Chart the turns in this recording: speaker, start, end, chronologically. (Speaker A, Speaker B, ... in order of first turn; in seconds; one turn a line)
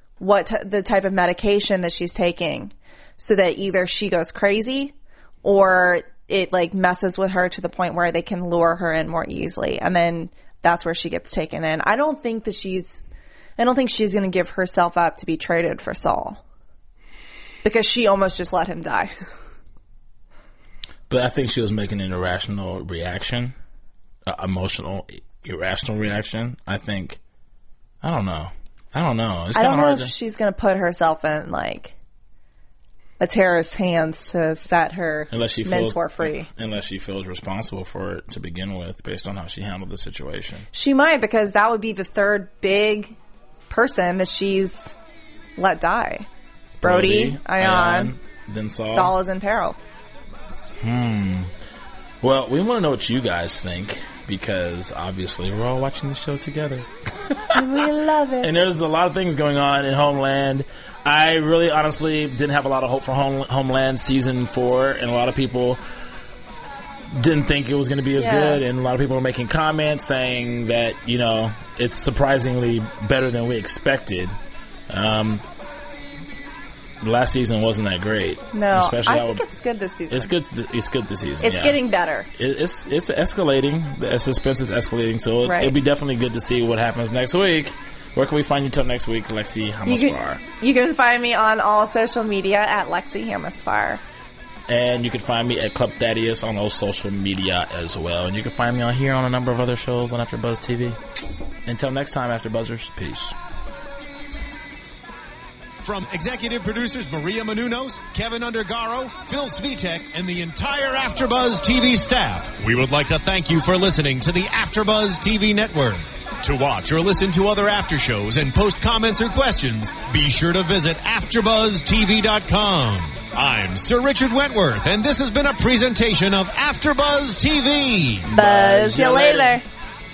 Speaker A: 0.2-13.0
Speaker A: 13.6-16.4
Speaker A: 17.6-19.1
Speaker B: 21.1-23.6
Speaker B: 24.3-27.2
Speaker B: 28.0-30.1
Speaker A: 29.5-31.9
Speaker A: 33.2-36.5
Speaker B: 35.3-40.7
Speaker A: 40.7-43.2
Speaker A: 43.7-45.0
Speaker A: 45.6-46.3
Speaker B: 46.8-49.1
Speaker A: 46.8-48.1
Speaker A: 48.9-49.8
Speaker B: 50.8-51.5
Speaker B: 52.2-57.9
Speaker A: 57.5-58.7
Speaker B: 58.4-65.8
Speaker B: 67.1-74.3
Speaker A: 68.2-68.6
Speaker B: 74.9-75.4
Speaker B: 77.0-79.4
Speaker A: 78.5-80.3
Speaker B: 80.1-81.8
Speaker A: 81.4-82.3
Speaker B: 82.4-90.4
Speaker A: 85.5-85.8
Speaker A: 89.9-94.0
Speaker B: 94.7-101.0
Speaker B: 101.7-103.4
Speaker C: 105.8-128.3
Speaker B: 128.3-129.6
Speaker A: 128.3-129.7